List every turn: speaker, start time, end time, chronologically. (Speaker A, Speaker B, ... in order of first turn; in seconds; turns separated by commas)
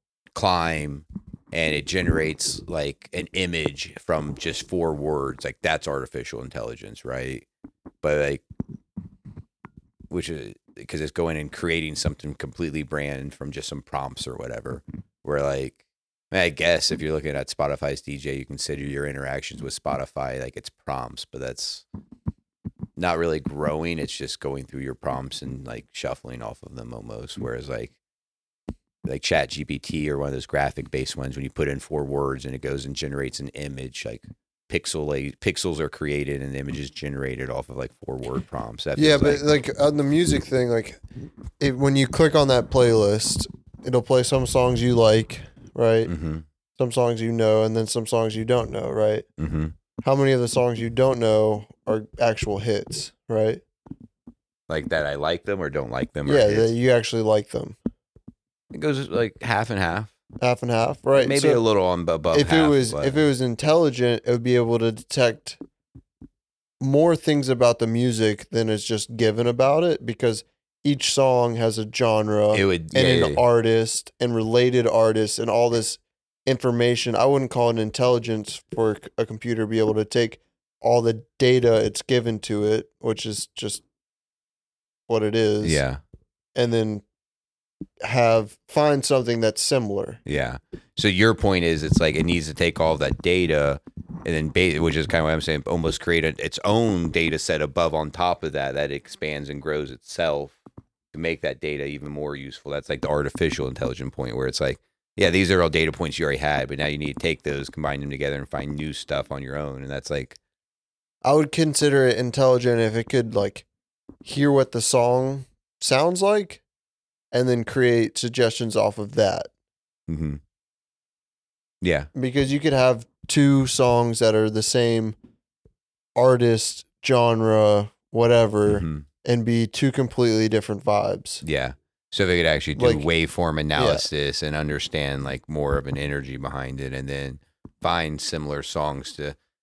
Speaker A: 0.3-7.5, Speaker A: 8.0-8.4, Speaker A: 10.1-15.8, Speaker A: 16.3-21.9, Speaker A: 23.0-28.0, Speaker A: 29.1-39.5, Speaker B: 39.0-41.0, Speaker B: 41.6-46.1, Speaker A: 46.1-46.5, Speaker B: 46.8-49.2, Speaker A: 49.4-49.8, Speaker B: 50.0-53.6, Speaker A: 54.7-56.7, Speaker B: 56.3-57.8, Speaker A: 58.7-60.1, Speaker B: 60.4-61.6, Speaker A: 61.1-63.2, Speaker B: 62.3-65.6, Speaker B: 66.8-83.8, Speaker A: 72.5-73.4, Speaker B: 85.1-85.8, Speaker A: 85.6-86.0, Speaker B: 86.6-87.0, Speaker B: 88.0-90.2, Speaker A: 90.3-100.6, Speaker A: 101.1-110.4, Speaker B: 111.2-113.7, Speaker B: 114.2-116.6, Speaker B: 117.3-119.5, Speaker A: 120.1-120.4, Speaker A: 121.8-122.1, Speaker B: 122.2-125.2, Speaker B: 126.2-131.4, Speaker A: 128.7-129.1, Speaker A: 131.4-139.4, Speaker B: 132.8-133.1, Speaker B: 133.8-134.1